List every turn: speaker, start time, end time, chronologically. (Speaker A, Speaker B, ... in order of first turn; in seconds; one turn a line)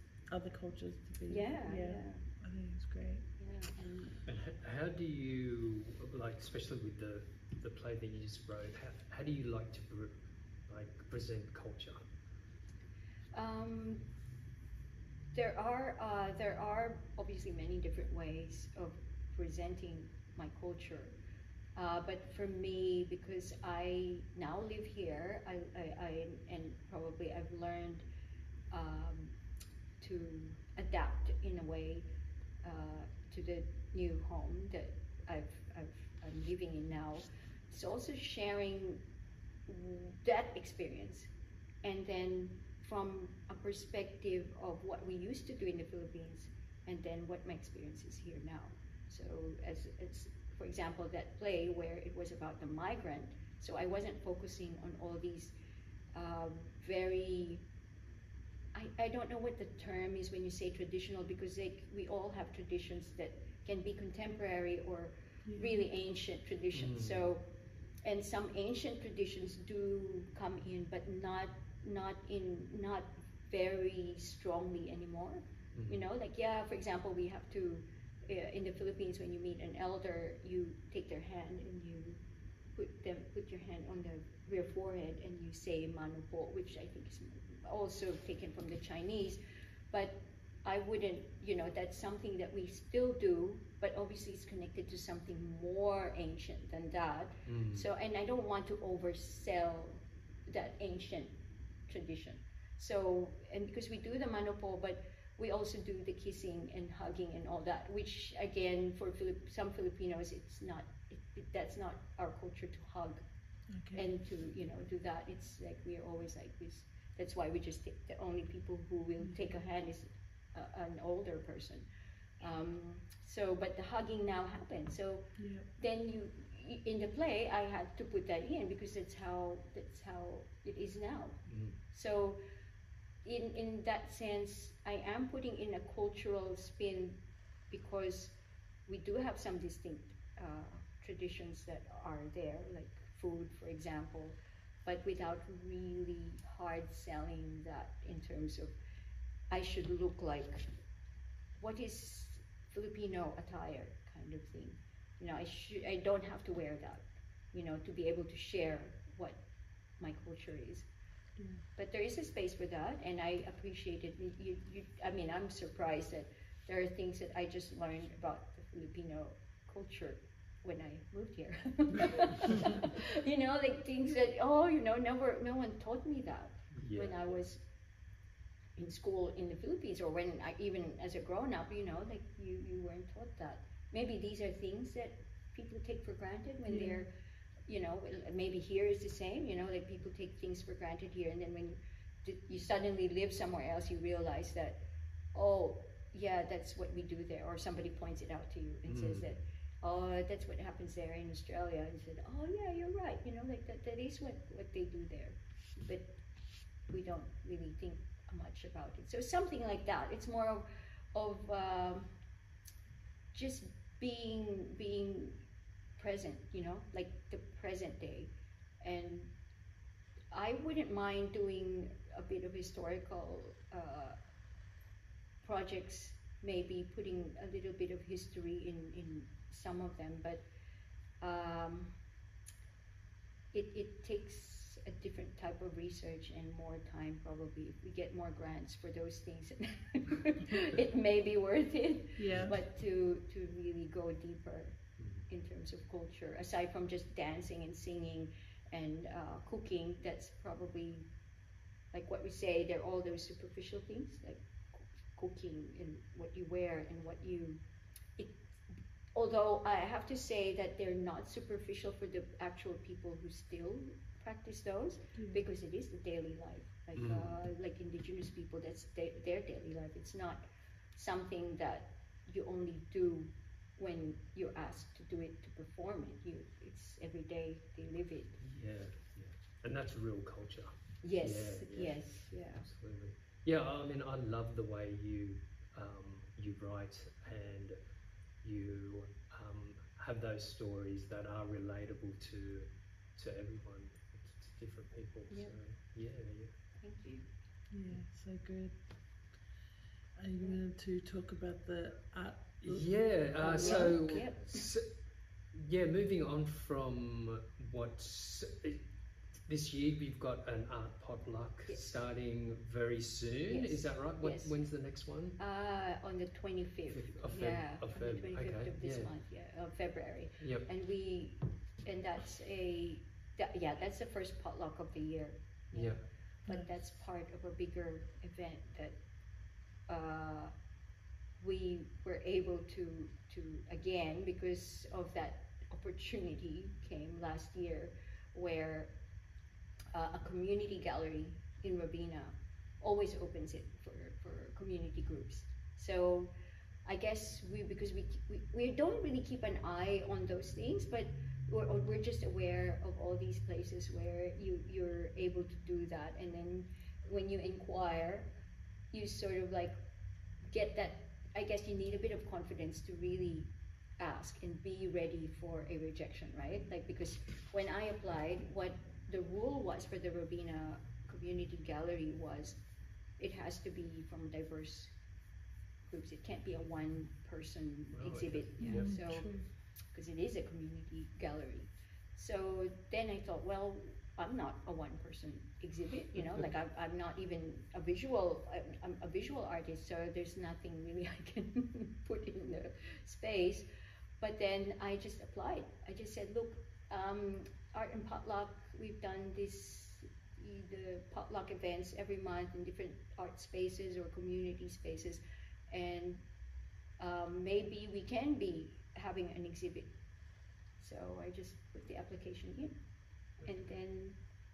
Speaker A: 0.3-3.2
Speaker B: 1.3-2.2
Speaker B: 3.4-4.2
Speaker C: 4.2-10.2
Speaker C: 10.7-12.0
Speaker B: 13.3-14.1
Speaker B: 15.3-21.1
Speaker B: 21.8-28.0
Speaker B: 28.7-29.4
Speaker B: 30.0-32.1
Speaker B: 32.6-39.0
Speaker B: 39.7-41.3
Speaker B: 41.8-55.5
Speaker B: 56.1-57.6
Speaker B: 58.7-67.5
Speaker A: 65.5-65.8
Speaker C: 66.7-67.3
Speaker B: 68.0-82.2
Speaker C: 75.7-76.0
Speaker B: 82.7-89.4
Speaker B: 89.9-101.3
Speaker C: 97.5-97.8
Speaker B: 101.9-113.2
Speaker A: 113.7-114.0
Speaker B: 113.9-121.9
Speaker A: 119.2-119.5
Speaker B: 122.4-131.4
Speaker A: 125.4-125.7
Speaker C: 131.5-131.8
Speaker B: 131.9-132.4
Speaker B: 133.2-138.3
Speaker B: 138.9-148.7
Speaker B: 149.5-150.6
Speaker B: 151.6-159.4
Speaker B: 160.0-160.9
Speaker A: 161.4-161.6
Speaker B: 161.8-177.6
Speaker C: 176.7-177.2
Speaker B: 178.8-187.1
Speaker A: 186.7-187.1
Speaker B: 187.7-194.8
Speaker B: 195.3-206.2
Speaker C: 198.9-199.3
Speaker B: 206.9-212.1
Speaker B: 213.3-215.4
Speaker B: 216.0-219.3
Speaker B: 220.3-224.2
Speaker B: 225.4-230.4
Speaker B: 231.2-231.9
Speaker B: 233.5-251.1
Speaker A: 242.2-242.5
Speaker C: 245.0-245.2
Speaker B: 251.9-257.6
Speaker B: 259.1-278.4
Speaker A: 265.1-265.4
Speaker C: 267.0-267.4
Speaker C: 278.4-282.0
Speaker B: 281.0-282.6
Speaker C: 282.5-287.8
Speaker C: 288.4-296.5
Speaker B: 295.3-295.5
Speaker B: 296.8-297.3
Speaker A: 297.7-298.7
Speaker A: 300.2-302.9
Speaker C: 302.6-304.8
Speaker B: 303.4-304.6
Speaker A: 303.4-304.2
Speaker C: 305.5-308.8
Speaker C: 309.5-315.4
Speaker B: 313.4-314.6
Speaker B: 315.4-329.0
Speaker C: 316.9-319.1
Speaker C: 320.4-320.7
Speaker C: 325.7-326.0
Speaker B: 329.9-330.5
Speaker B: 331.4-338.9
Speaker B: 339.9-346.3
Speaker B: 346.8-358.3
Speaker B: 358.9-359.7
Speaker B: 360.4-372.6
Speaker B: 373.2-374.9
Speaker B: 375.9-379.3
Speaker C: 377.9-378.9
Speaker A: 378.6-379.4
Speaker B: 379.9-393.6
Speaker B: 394.2-406.2
Speaker B: 407.0-409.9
Speaker B: 410.8-412.8
Speaker B: 413.4-414.2